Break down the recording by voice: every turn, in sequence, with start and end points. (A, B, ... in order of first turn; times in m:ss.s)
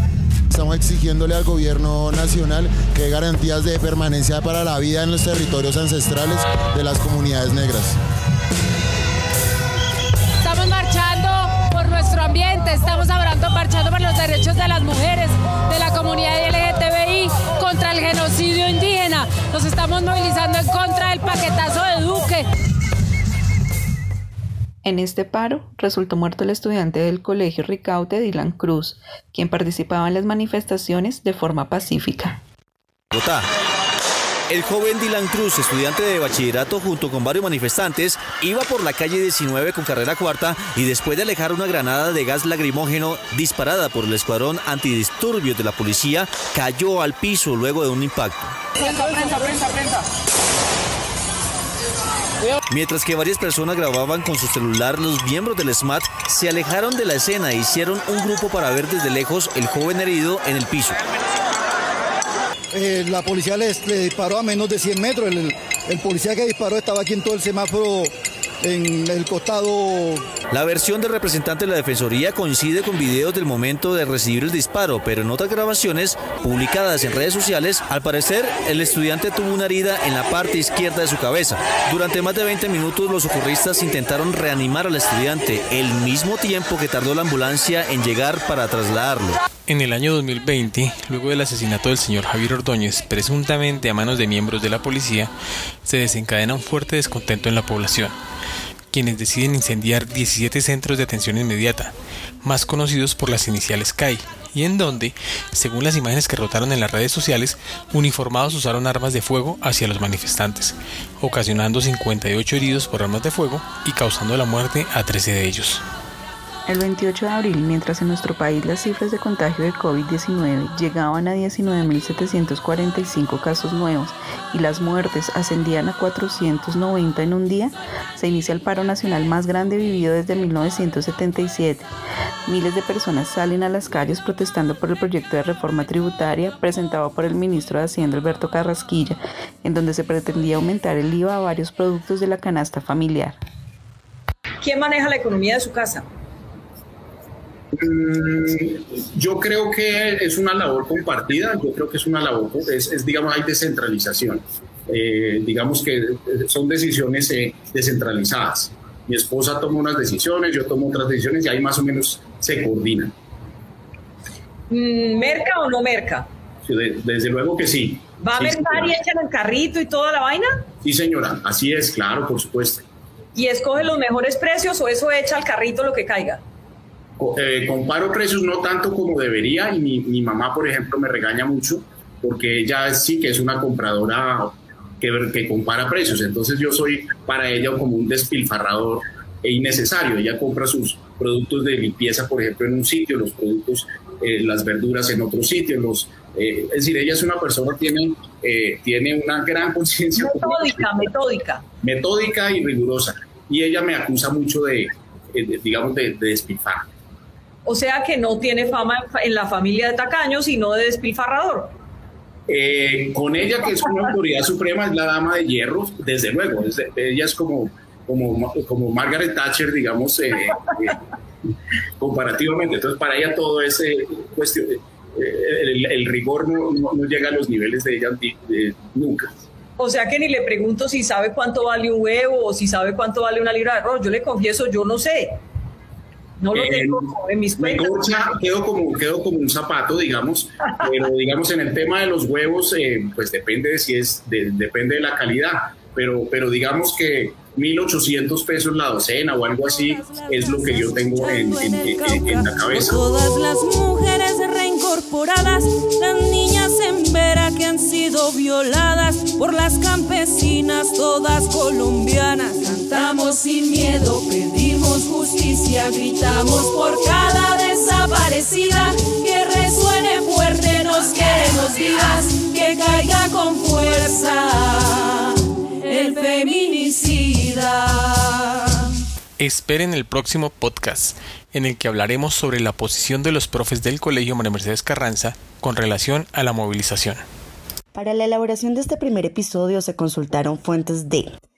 0:00.5-0:08.0 A
0:10.4-0:22.5 B
0:24.8-0:32.4 C
0:33.1-0:33.4 D
0:34.5-0:48.4 D
0:52.7-1:01.0 D
1:02.7-1:08.1 E
1:08.6-1:10.2 E
1:10.5-1:29.4 D
1:29.7-1:35.3 F
1:35.8-1:38.2 F
1:38.9-1:55.8 F
1:56.7-2:11.9 C
2:12.5-2:23.4 C
2:24.6-2:26.1 G
2:27.8-2:43.1 H
2:44.7-2:46.3 G
2:46.6-2:48.9 H
2:48.2-2:50.7 G
2:50.8-2:52.9 H
2:53.4-2:56.4 G
2:57.2-3:20.9 H
3:20.1-3:21.6 G
3:21.8-3:26.9 H
3:27.6-3:31.7 G
3:32.5-3:41.0 H
3:42.0-3:49.3 H
3:49.8-3:55.4 G
3:56.4-3:58.4 G
3:56.6-3:56.9 H
3:57.7-4:13.0 H
4:10.1-4:10.6 I
4:11.2-4:35.3 I
4:35.9-4:38.4 I
4:39.4-4:47.2 F
4:48.0-4:51.3 J